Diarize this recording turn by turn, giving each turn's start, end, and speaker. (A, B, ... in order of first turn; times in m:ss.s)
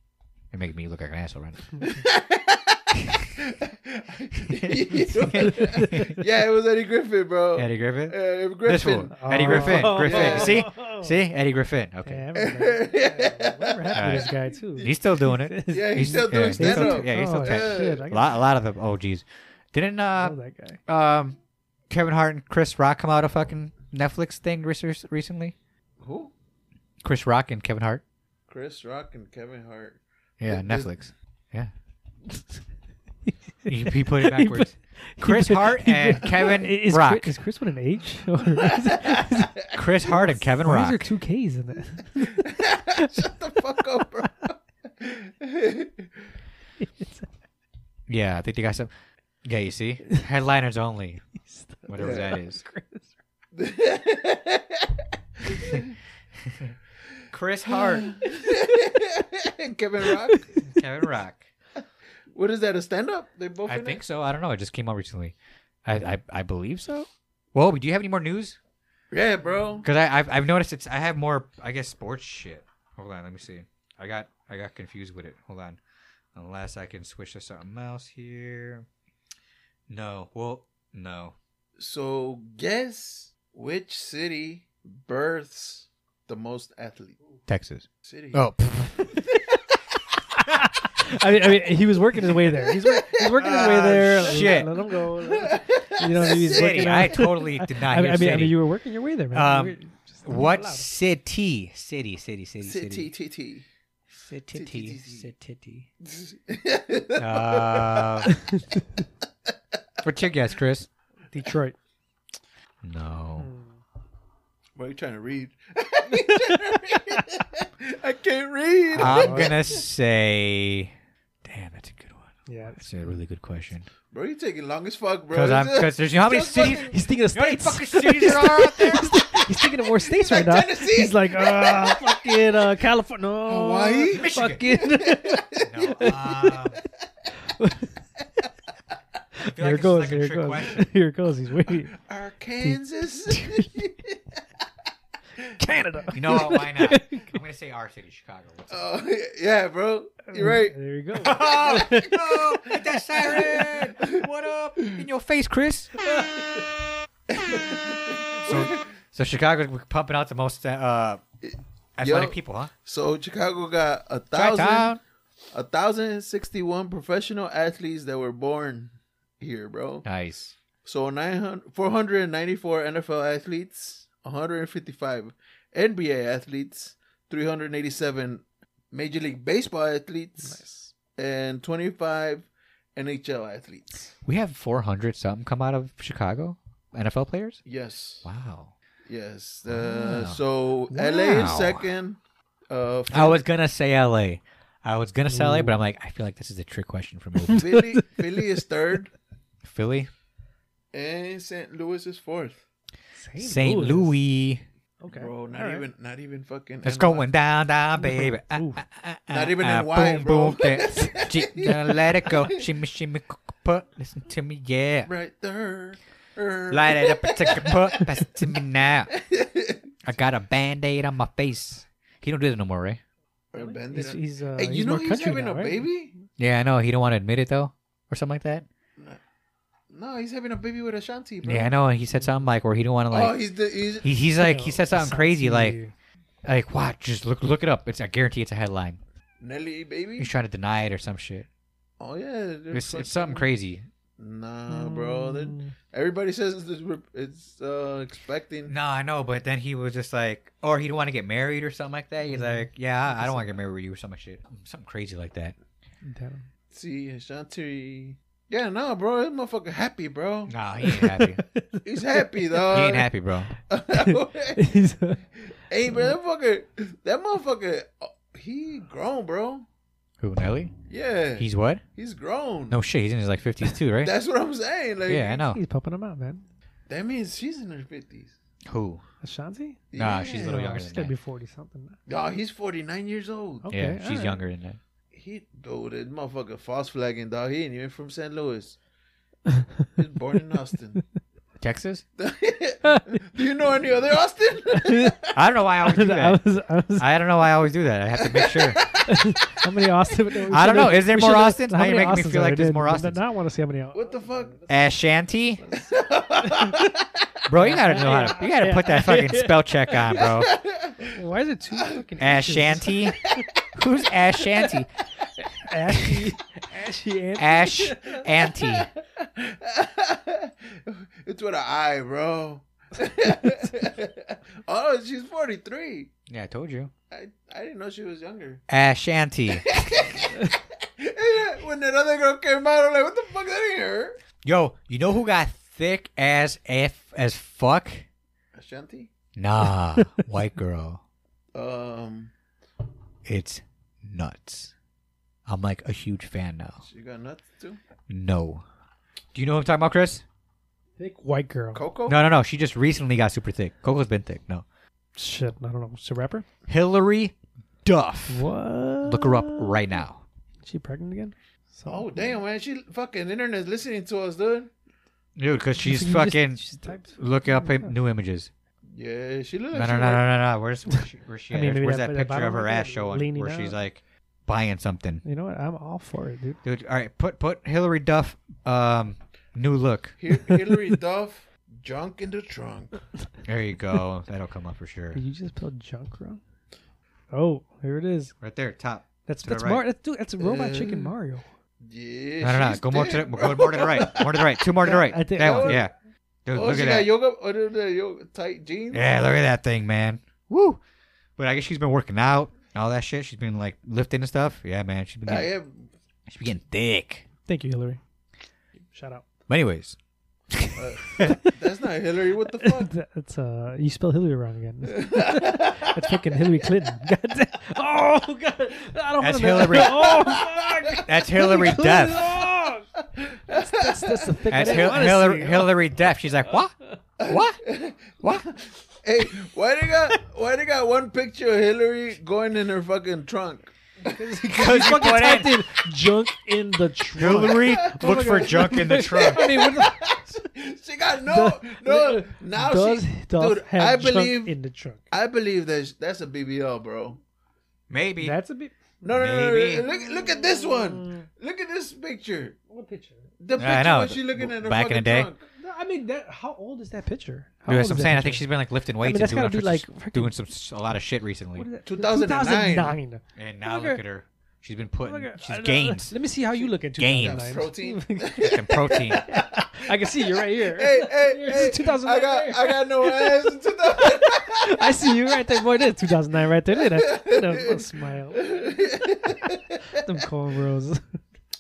0:00.5-0:01.8 A
0:01.8-0:10.6 B
0:04.5-0:06.2 A
0:05.4-0:06.1 C
0:07.6-0:12.2 A
0:09.1-0:11.2 C
0:12.1-0:18.3 C
0:12.3-0:14.9 B
0:13.9-0:20.4 A
0:15.7-0:18.1 B
0:20.2-0:20.8 C
0:20.9-0:21.4 A
0:21.9-0:25.6 A
0:26.0-0:26.3 B
0:27.0-0:28.0 A
0:28.5-0:30.9 B
0:30.4-0:31.7 A
0:33.6-0:43.3 C
0:33.7-0:37.3 A
0:38.6-0:39.5 B
0:39.7-0:41.0 A
0:42.2-0:46.1 B
0:46.8-0:47.3 C
0:48.1-0:48.9 A
0:49.4-0:51.2 A
0:51.5-0:53.1 C
0:51.9-0:52.6 A
0:52.0-0:52.4 B
0:53.5-0:56.0 B
0:57.3-0:58.1 A
0:57.7-1:00.5 B
1:00.6-1:01.5 A
1:02.3-1:04.0 B
1:03.7-1:08.6 A
1:09.1-1:09.9 B
1:09.8-1:15.8 A
1:16.4-1:18.9 A
1:19.9-1:21.4 A
1:21.8-1:27.2 B
1:27.5-1:29.2 A
1:28.0-1:28.4 B
1:30.4-1:30.7 A
1:30.6-1:40.9 C
1:32.6-1:37.1 B
1:33.4-1:34.7 A
1:36.2-1:38.6 A
1:39.3-1:43.1 A
1:42.6-1:43.7 B
1:44.2-1:45.9 A
1:44.5-1:45.3 B
1:46.0-1:48.3 B
1:47.2-1:48.3 A
1:50.0-1:50.9 A
1:51.3-1:51.8 C
1:52.8-1:53.5 A
1:53.4-1:53.8 C
1:54.8-1:59.8 B
1:56.5-1:57.2 C
1:59.0-1:59.6 C
1:59.0-2:00.9 A
2:01.4-2:03.9 A
2:02.5-2:02.9 C
2:04.1-2:07.0 B
2:05.3-2:09.1 A
2:06.9-2:16.7 C
2:10.0-2:12.6 B
2:13.4-2:16.2 B
2:14.1-2:14.7 A
2:15.6-2:16.8 A
2:17.5-2:17.9 C
2:19.4-2:22.0 C
2:19.4-2:20.9 A
2:22.0-2:24.2 B
2:22.6-2:23.8 C
2:25.6-2:27.4 C
2:26.1-2:28.8 A
2:28.7-2:30.8 B
2:30.3-2:32.3 C
2:31.2-2:35.9 A
2:31.4-2:32.1 B
2:32.7-2:34.3 B
2:36.1-2:36.4 C
2:37.3-2:38.9 B
2:38.4-2:41.2 A
2:41.4-2:44.9 B
2:42.0-2:42.7 A
2:44.3-2:45.0 A
2:45.5-2:50.0 B
2:50.0-2:50.6 A
2:50.8-3:00.6 B
3:00.4-3:00.9 C
3:01.1-3:04.1 B
3:04.2-3:07.6 A
3:07.6-3:08.3 B
3:08.2-3:08.7 A
3:09.1-3:12.2 B
3:09.7-3:10.4 A
3:11.0-3:11.4 C
3:11.0-3:11.9 A
3:12.7-3:13.4 B
3:13.1-3:17.7 A
3:15.3-3:15.8 C
3:17.5-3:18.0 C
3:17.5-3:19.1 B
3:19.6-3:20.1 A
3:20.9-3:22.6 B
3:23.2-3:24.2 C
3:23.4-3:24.6 A
3:25.0-3:25.9 C
3:25.1-3:27.3 B
3:26.8-3:35.1 A
3:28.0-3:28.8 C
3:29.3-3:32.6 B
3:35.1-3:38.3 B
3:36.7-3:39.1 A
3:39.1-3:39.9 B
3:40.0-3:43.0 A
3:43.5-3:46.1 B
3:43.6-3:45.9 C
3:46.4-3:48.7 A
3:49.9-3:51.7 B
3:51.4-3:53.4 A
3:53.1-3:54.1 B
3:54.0-3:55.8 A
3:54.4-3:55.9 C
3:56.4-3:59.0 A
3:59.4-4:00.3 B
4:00.2-4:01.5 A
4:02.0-4:03.5 B
4:02.7-4:03.9 A
4:04.2-4:08.8 B
4:04.7-4:05.7 C
4:08.7-4:15.6 A
4:12.3-4:12.7 C
4:16.0-4:16.4 C
4:16.7-4:20.5 B
4:20.5-4:21.4 A
4:20.8-4:22.9 C
4:21.8-4:23.1 B
4:22.7-4:23.6 A
4:23.7-4:24.7 B
4:23.9-4:25.2 C
4:25.7-4:29.7 B
4:30.2-4:30.7 A
4:30.9-4:32.8 B
4:31.4-4:31.8 A
4:32.7-4:34.1 A
4:34.0-4:35.4 B
4:35.1-4:35.6 A
4:35.3-4:36.5 C
4:36.9-4:38.3 B
4:38.7-4:39.0 A
4:39.2-4:42.0 C
4:39.9-4:40.6 B
4:40.0-4:41.1 A
4:42.1-4:43.7 B
4:43.6-4:44.4 C
4:43.7-4:44.8 A
4:45.1-4:48.8 B
4:49.5-4:49.9 C
4:50.0-4:51.0 B
4:51.6-4:52.0 A
4:52.2-4:55.3 B
4:52.8-4:53.2 C
4:54.7-4:55.2 C
4:55.3-4:56.4 A
4:55.8-4:57.1 C
4:57.0-4:58.9 A
4:58.2-4:59.3 B
4:59.1-5:04.6 C
5:00.5-5:03.2 A
5:03.9-5:04.6 B
5:04.7-5:05.6 A
5:05.7-5:07.1 B
5:06.4-5:06.9 C
5:07.5-5:10.5 A
5:07.5-5:10.3 C
5:10.2-5:11.1 B
5:11.0-5:13.4 C
5:12.2-5:15.0 A
5:15.5-5:18.3 C
5:17.4-5:18.9 A
5:19.3-5:26.1 B
5:26.3-5:26.9 A
5:27.1-5:28.6 B
5:28.7-5:29.8 A
5:29.5-5:34.2 B
5:34.4-5:38.1 A
5:38.6-5:39.1 B
5:39.4-5:41.0 A
5:41.5-5:42.3 B
5:43.3-5:44.7 A
5:45.5-5:46.8 A
5:46.8-5:47.8 B
5:48.1-5:48.6 A
5:49.4-5:50.2 A
5:51.0-5:51.8 C
5:51.7-5:52.2 B
5:52.1-5:54.6 A
5:55.2-5:56.5 C
5:56.7-5:58.4 A
5:58.3-6:00.0 C
5:59.0-6:00.2 A
6:00.6-6:02.3 C
6:01.9-6:04.7 B
6:05.4-6:06.6 A
6:05.8-6:07.9 C
6:07.2-6:08.5 A
6:08.9-6:10.3 B
6:09.7-6:15.2 A
6:11.5-6:13.8 C
6:15.2-6:16.6 C
6:16.6-6:20.2 A
6:20.2-6:23.0 B
6:23.4-6:25.2 A
6:25.1-6:26.4 C
6:27.3-6:28.3 C
6:28.4-6:29.8 A
6:29.3-6:31.4 C
6:30.4-6:31.1 B
6:31.8-6:35.9 B
6:32.4-6:35.9 A
6:34.8-6:35.9 C
6:36.4-6:37.1 A
6:36.5-6:39.2 B
6:38.9-6:40.8 A
6:41.4-6:45.5 A
6:45.3-6:45.9 B
6:46.3-6:47.2 A
6:47.5-6:48.0 C
6:48.9-6:49.2 C
6:49.5-6:50.0 A
6:50.5-6:51.4 A
6:50.8-6:52.9 B
6:51.2-6:51.5 C
6:52.6-7:03.0 C
6:54.9-6:56.7 B
6:59.2-7:00.1 A
6:59.9-7:01.0 B
7:01.0-7:02.3 A
7:03.1-7:05.2 B
7:03.5-7:05.8 C
7:04.5-7:07.6 A
7:07.2-7:14.2 B
7:08.2-7:08.5 A
7:14.0-7:20.2 C
7:14.5-7:15.8 A
7:17.2-7:19.5 A
7:17.5-7:24.6 B
7:21.3-7:25.0 C
7:25.1-7:27.2 B
7:27.9-7:28.4 A
7:28.2-7:28.9 C
7:29.0-7:32.6 B
7:29.1-7:29.9 A
7:29.9-7:31.3 C
7:32.7-7:33.3 C
7:33.4-7:35.4 B
7:33.6-7:35.3 A
7:35.5-7:38.5 C
7:37.7-7:41.7 A
7:39.0-7:40.4 C
7:41.6-7:44.0 C
7:41.8-7:43.0 B
7:43.4-7:46.2 A
7:45.0-7:58.7 C
7:46.6-7:55.1 B
7:47.0-7:47.6 A
7:48.4-7:49.2 A
7:56.8-8:00.2 B
7:59.9-8:01.2 C